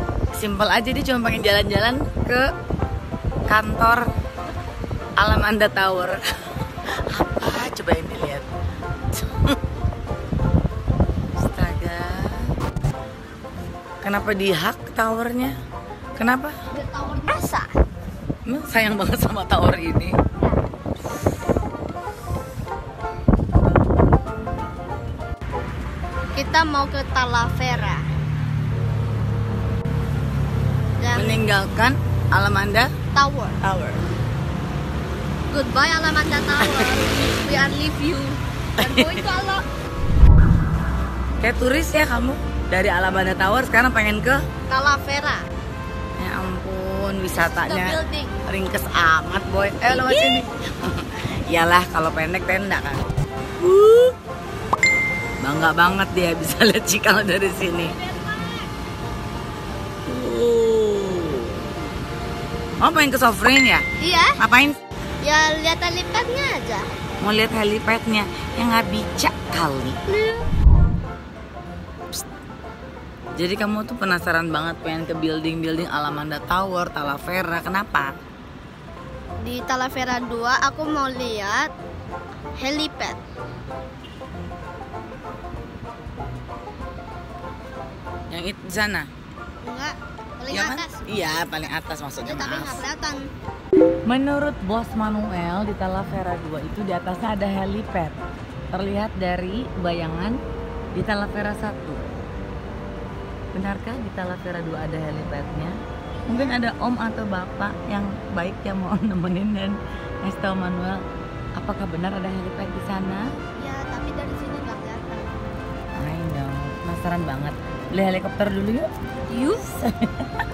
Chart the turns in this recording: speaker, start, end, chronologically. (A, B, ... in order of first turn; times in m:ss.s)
0:00.4-0:02.5 A
0:03.5-0:04.1 A
0:05.2-0:06.2 A
0:07.1-0:08.5 A
0:09.1-0:09.6 A
0:11.4-0:12.5 A
0:14.0-0:15.6 A
0:16.2-0:16.6 A
0:16.7-0:17.7 B
0:18.4-0:20.2 A
0:26.3-0:28.0 B
0:31.0-0:31.4 B
0:31.1-0:32.9 A
0:33.1-0:33.6 B
0:33.6-0:34.1 A
0:35.5-0:39.6 B
0:36.6-0:36.9 A
0:38.8-0:39.3 A
0:41.4-0:44.4 A
0:44.7-0:45.4 B
0:46.2-0:53.0 A
0:47.3-0:48.3 B
0:49.9-0:50.4 B
0:53.6-0:54.1 A
0:55.4-0:57.9 A
0:57.8-0:58.6 B
1:00.1-1:01.6 A
1:02.8-1:03.8 A
1:04.0-1:04.4 B
1:04.4-1:04.8 A
1:05.2-1:06.8 B
1:07.2-1:10.0 A
1:10.1-1:10.4 B
1:13.4-1:18.1 A
1:19.4-1:21.7 B
1:22.6-1:23.2 B
1:28.3-1:29.1 A
1:29.6-1:31.0 B
1:30.5-1:32.8 A
1:32.2-1:33.2 B
1:34.1-1:38.2 A
1:38.7-1:40.4 A
1:40.9-1:42.0 A
1:43.5-1:45.7 A
1:46.3-1:51.0 A
1:46.3-1:46.6 B
1:51.6-1:53.2 A
1:53.5-1:55.3 B
1:56.0-1:58.9 A
1:59.3-1:59.6 B
1:59.5-2:00.4 A